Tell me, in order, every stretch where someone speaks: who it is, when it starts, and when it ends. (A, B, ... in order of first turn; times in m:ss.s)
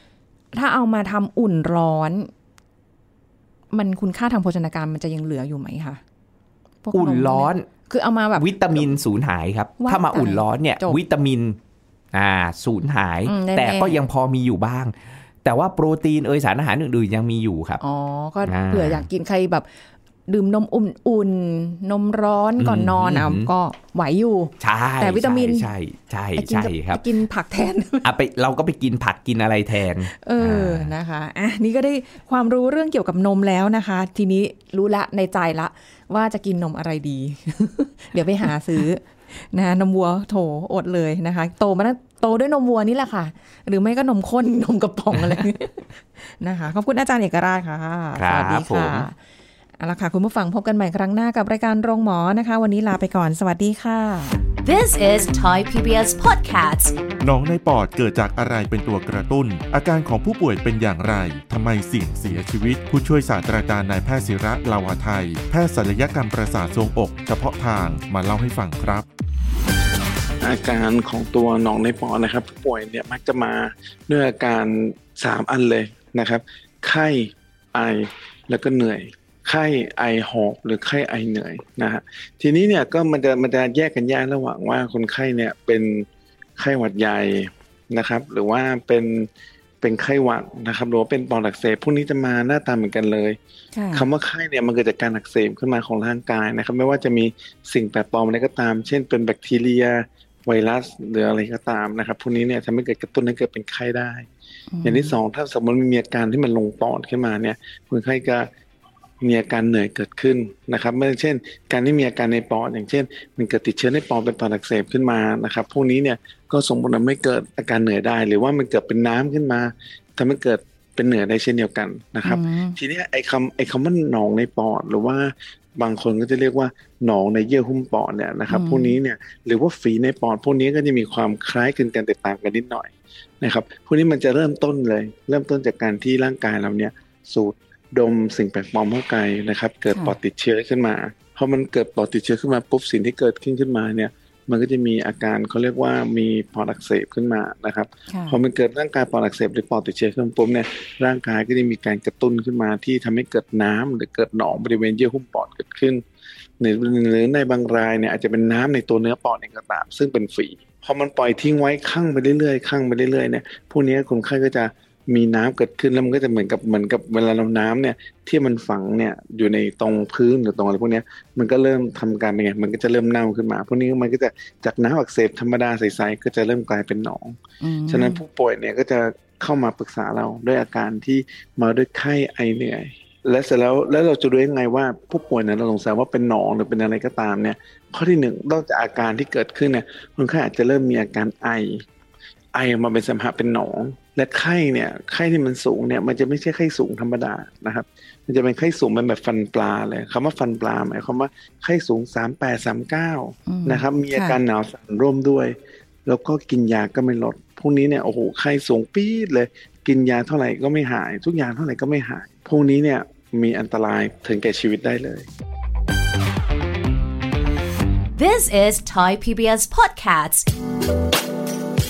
0:00.5-0:02.3 A
0:03.7-0:06.0 A
0:06.8-0:08.5 A
0:06.9-0:07.7 B
0:08.4-0:11.6 B
0:09.8-0:11.0 A
0:12.1-0:17.8 B
0:13.2-0:14.0 A
0:17.8-0:19.7 A
0:18.4-0:19.1 B
0:20.3-0:25.7 A
0:22.6-0:23.5 B
0:24.6-0:27.0 B
0:26.4-0:28.1 A
0:28.0-0:30.9 B
0:30.1-0:49.2 A
0:45.2-0:45.4 B
0:48.1-0:49.1 B
0:49.8-0:54.4 A
0:54.6-0:57.0 C
0:57.2-1:09.1 D
1:10.4-1:26.1 E
1:26.6-1:29.3 E
1:29.8-1:33.4 E
1:33.7-1:34.1 A
1:33.9-1:44.3 E
1:44.7-1:45.2 A
1:44.8-1:48.5 E
1:49.2-2:36.0 E
2:02.2-2:02.8 A
2:08.5-2:09.0 A
2:19.9-2:20.2 A
2:28.1-2:28.4 A
2:36.6-3:11.8 E
2:57.6-2:58.2 A
3:12.5-3:25.6 E
3:23.5-3:24.4 A
3:26.1-3:35.3 E
3:38.2-3:40.5 C